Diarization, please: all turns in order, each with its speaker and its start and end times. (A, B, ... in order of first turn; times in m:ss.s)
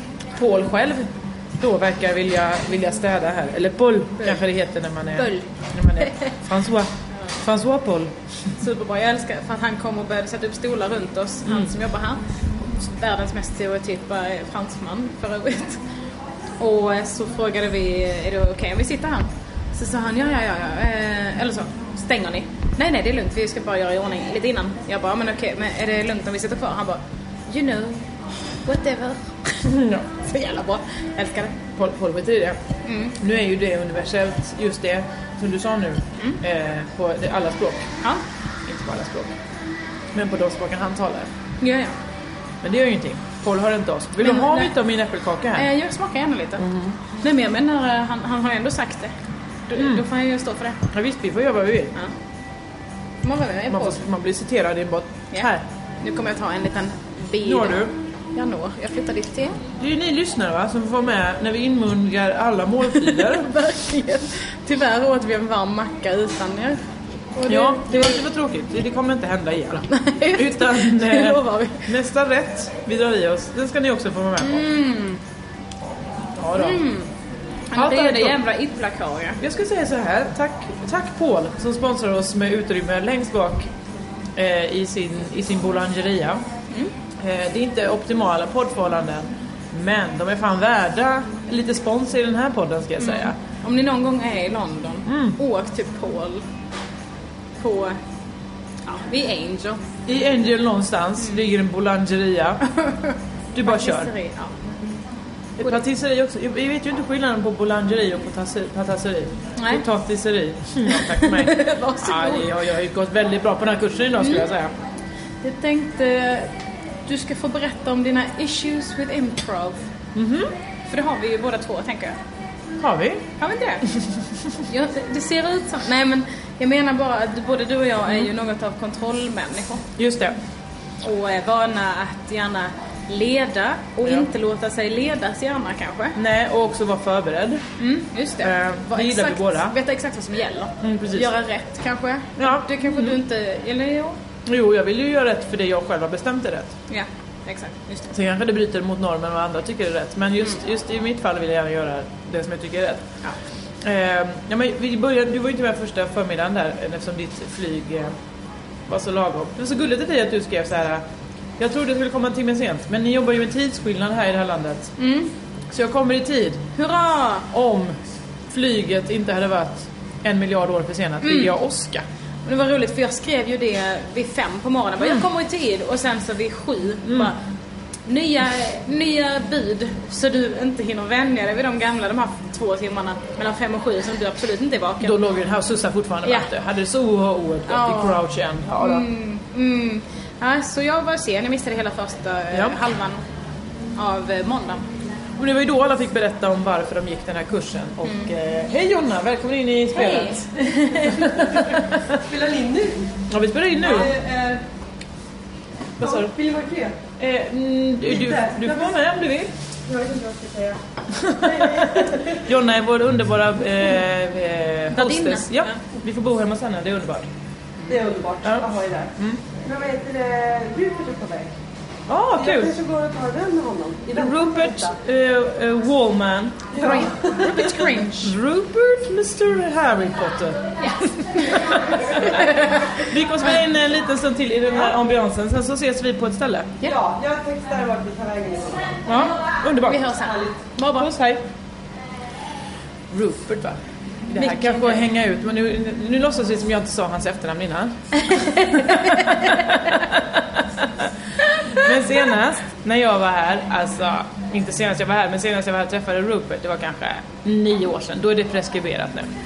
0:00.4-0:08.1 A
0:05.2-0:06.3 B
0:08.6-0:12.2 B
0:11.5-0:11.7 A
0:12.8-0:15.8 B
0:16.6-0:29.7 B
0:29.6-0:30.1 A
0:30.2-0:31.6 B
0:31.8-0:32.6 A
0:32.8-0:33.2 B
0:33.2-0:37.9 A
0:38.7-0:39.4 A
0:40.1-0:41.3 A
0:41.6-0:42.0 B
0:42.6-0:45.7 A
0:44.2-0:44.7 B
0:45.6-0:46.6 B
0:46.6-0:47.0 A
0:47.2-0:49.1 B
0:49.7-0:50.8 B
0:49.8-0:50.0 A
0:50.9-0:51.9 A
0:53.2-0:54.0 B
0:53.7-0:55.6 A
0:55.3-0:59.6 B
0:57.4-0:57.9 A
0:59.8-1:03.5 A
1:03.0-1:06.8 B
1:07.4-1:08.2 B
1:07.5-1:14.6 A
1:09.9-1:11.9 B
1:14.4-1:15.2 B
1:16.4-1:16.8 A
1:16.6-1:17.1 B
1:17.7-1:19.4 B
1:17.7-1:18.4 A
1:19.4-1:23.7 A
1:24.4-1:26.4 A
1:27.2-1:33.4 A
1:33.0-1:36.4 B
1:35.1-1:35.4 A
1:37.6-1:38.0 B
1:38.9-1:39.8 B
1:40.1-1:42.6 A
1:42.7-1:44.5 B
1:43.5-1:44.1 A
1:45.6-1:54.7 A
1:49.6-1:49.8 B
1:50.9-1:52.6 B
1:54.2-1:54.5 B
1:55.4-1:56.5 B
1:57.1-1:59.8 B
2:00.2-2:00.5 A
2:00.9-2:02.2 B
2:02.8-2:03.3 A
2:03.4-2:03.9 B
2:04.7-2:09.8 B
2:10.0-2:10.4 A
2:11.0-2:16.2 B
2:16.2-2:17.6 A
2:17.8-2:24.2 B
2:18.4-2:19.8 A
2:20.8-2:21.3 A
2:22.4-2:23.2 A
2:24.5-2:26.8 A
2:26.9-2:28.1 B
2:28.1-2:33.1 A
2:33.8-2:38.2 A
2:38.9-2:41.0 A
2:41.6-2:45.0 A
2:45.0-2:45.3 B
2:45.7-2:46.6 A
2:46.8-2:47.5 B
2:47.5-2:48.0 A
2:48.5-2:52.0 A
2:51.2-2:51.5 B
2:52.4-2:57.4 B
2:55.0-2:55.2 A
2:57.1-2:57.3 A
2:58.1-3:05.2 B
3:05.0-3:09.1 A
3:07.7-3:08.2 B
3:08.8-3:13.2 B
3:12.5-3:12.8 A
3:14.0-3:14.8 B
3:15.4-3:22.2 A
3:18.0-3:18.3 B
3:19.9-3:21.3 B
3:21.6-3:23.2 C
3:23.3-3:24.1 A
3:23.8-3:24.6 C
3:26.0-3:26.3 A
3:26.0-3:27.0 C
3:27.2-3:29.5 A
3:28.2-3:28.9 C
3:29.9-3:30.8 C
3:31.1-3:37.3 A
3:31.4-3:32.4 C
3:34.9-3:35.8 B
3:37.9-3:39.1 C
3:38.4-3:39.4 A
3:39.6-3:41.5 C
3:42.1-3:42.8 A
3:42.4-3:45.0 C
3:44.1-3:47.0 A
3:46.7-3:47.6 C
3:46.8-3:48.3 B
3:47.5-3:56.8 A
3:50.8-3:53.0 B
3:56.8-3:59.0 C
3:59.1-4:00.2 A
3:59.8-4:01.1 B
4:00.9-4:01.4 A
4:03.1-4:11.1 A
4:04.3-4:05.0 B
4:08.3-4:09.7 B
4:11.5-4:11.9 B
4:11.7-4:19.3 A